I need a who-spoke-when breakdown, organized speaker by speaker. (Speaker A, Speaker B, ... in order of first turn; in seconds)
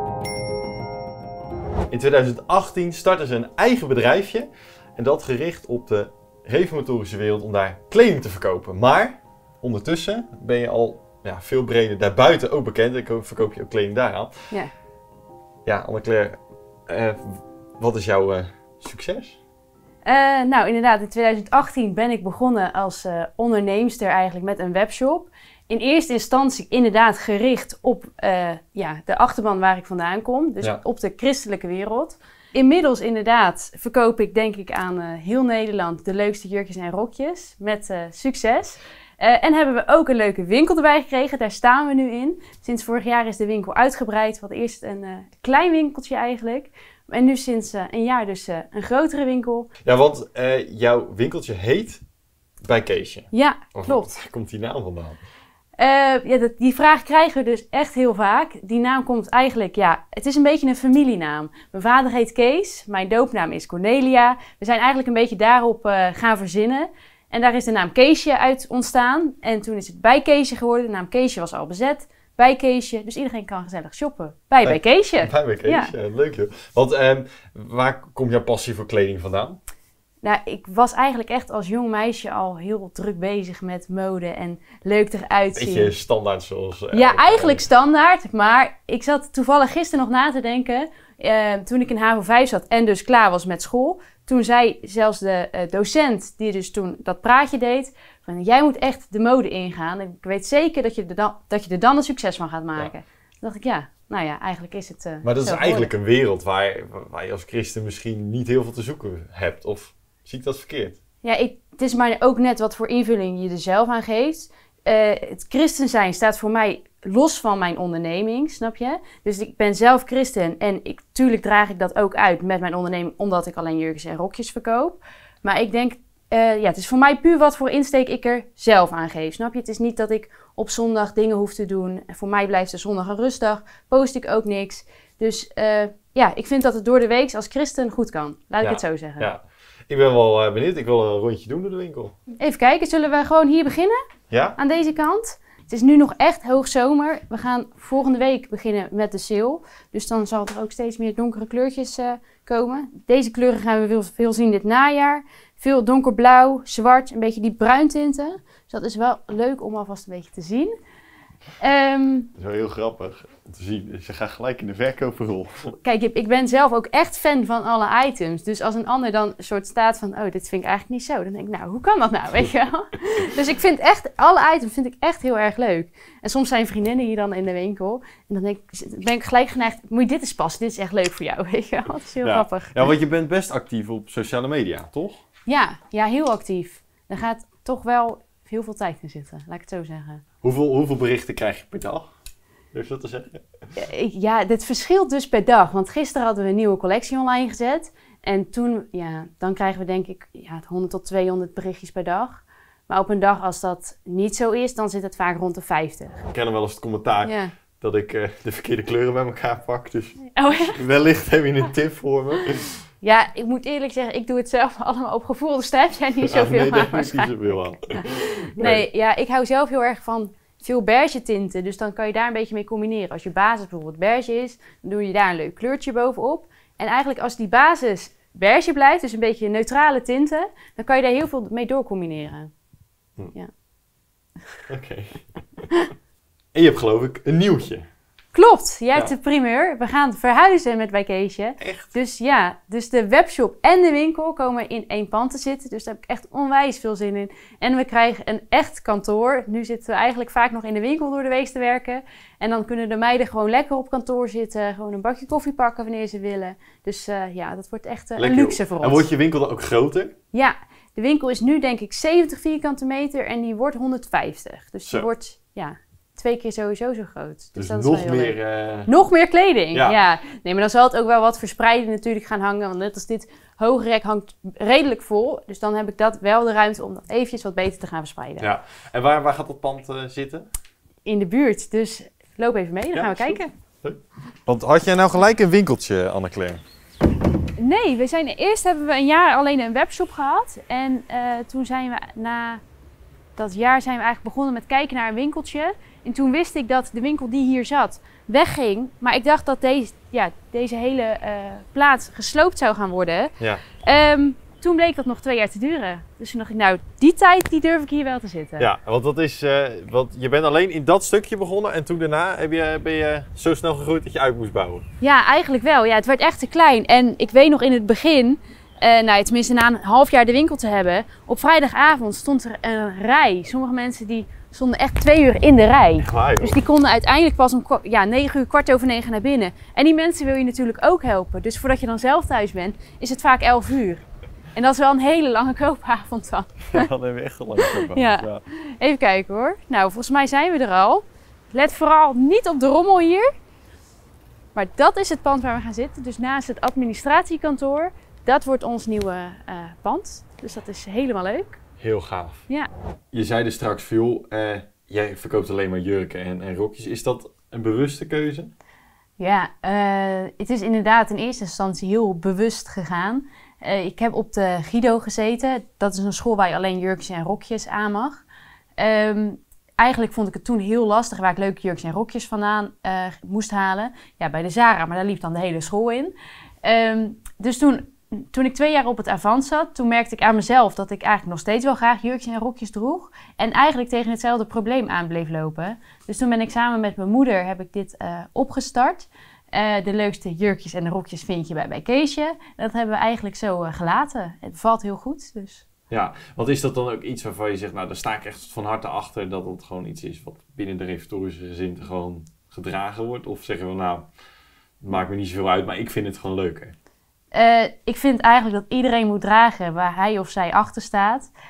Speaker A: 1.9-14.5, 15.6-19.4, 49.8-52.0, 52.6-55.2, 74.6-79.6, 85.5-87.7, 105.2-111.0, 138.6-142.2, 144.3-144.6, 162.4-165.8, 182.2-185.2, 190.4-192.1, 192.7-193.4, 206.3-212.8, 216.3-218.8, 234.7-235.2, 236.5-237.8, 241.6-241.9, 258.2-260.1, 267.6-268.9, 269.7-270.0, 278.4-280.5, 282.9-286.6, 308.6-314.9, 326.0-326.6, 336.7-338.4, 351.8-352.5, 353.1-358.5, 395.9-404.1, 404.8-406.7
Speaker B: 20.0-49.7, 53.3-54.1, 55.8-75.9, 80.2-85.9, 86.9-105.9, 111.2-139.3, 142.4-144.0, 144.6-160.7, 161.6-162.3, 165.8-182.9, 185.5-190.2, 193.8-206.3, 207.2-207.5, 210.3-210.8, 213.0-232.5, 238.3-259.1, 260.3-278.5, 281.0-283.5, 287.6-292.6, 293.4-308.7, 315.0-336.9, 337.6-343.3, 344.5-351.6, 359.2-368.2, 368.8-395.6, 407.3-411.3